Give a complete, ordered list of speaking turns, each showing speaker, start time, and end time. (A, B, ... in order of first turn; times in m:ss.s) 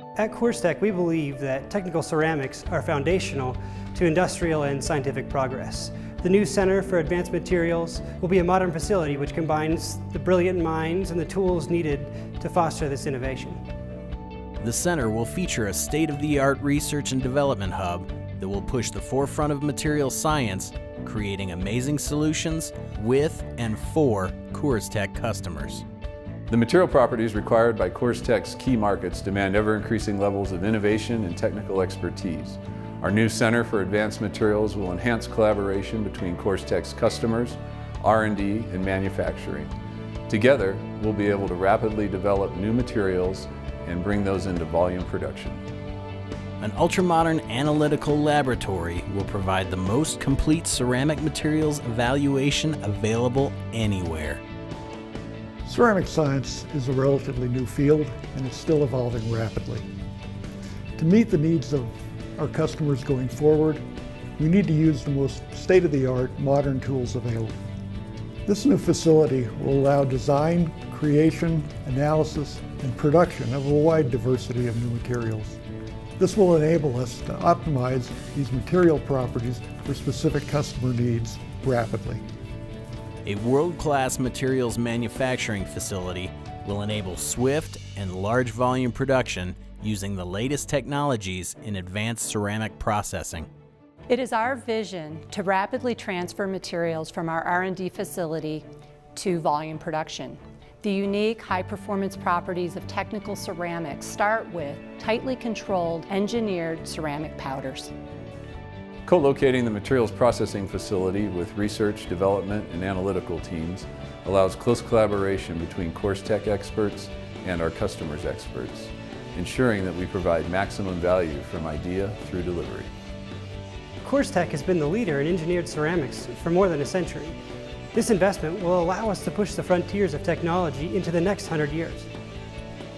0:00.2-0:13.6 A
0:14.6-0:25.8 B
0:26.5-0:39.7 C
0:40.3-0:45.6 C
0:46.6-0:54.4 B
0:55.6-0:59.8 D
1:01.0-1:03.8 D
1:04.4-1:07.5 D
1:08.4-1:15.6 D
1:16.2-1:22.2 D
1:23.2-1:33.5 B
1:34.1-1:47.9 E
1:49.0-2:02.9 C
2:04.0-2:07.4 A
2:07.9-2:12.1 A